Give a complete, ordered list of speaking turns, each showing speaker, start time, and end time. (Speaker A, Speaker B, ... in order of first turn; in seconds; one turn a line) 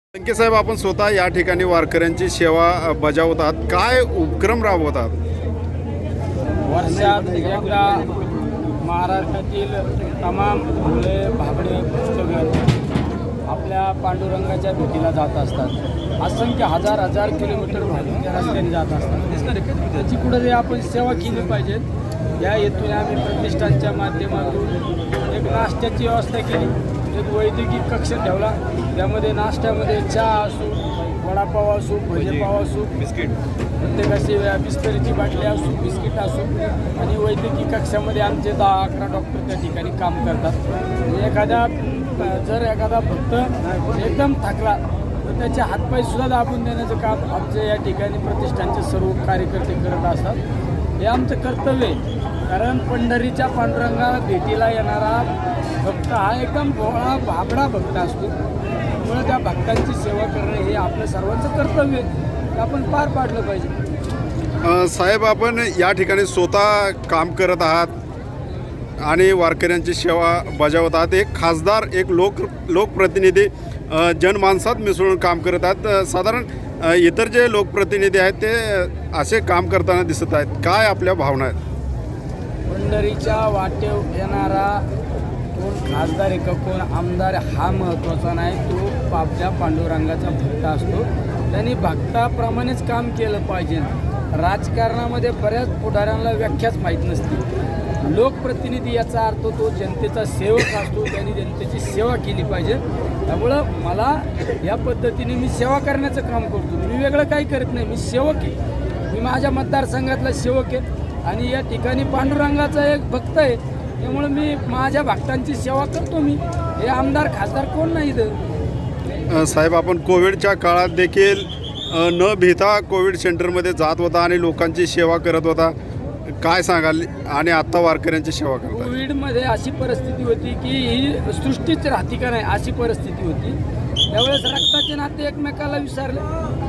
Speaker A: 0.1-5.1
Speaker B: 6.7-8.1
Speaker B: 8.8-12.6
Speaker B: 13.5-21.8
Speaker B: 22.4-24.8
Speaker B: 25.3-50.4
Speaker B: 51.0-55.3
Speaker B: 55.8-58.3
Speaker B: 59.0-63.7
Speaker A: 64.6-67.9
Speaker A: 69.0-81.6
Speaker B: 82.7-84.8
Speaker B: 85.5-97.4
Speaker B: 98.0-108.5
Speaker B: 109.1-118.3
Speaker A: 119.3-125.7
Speaker A: 126.3-128.9
Speaker B: 128.7-133.6
Speaker B: 134.1-136.3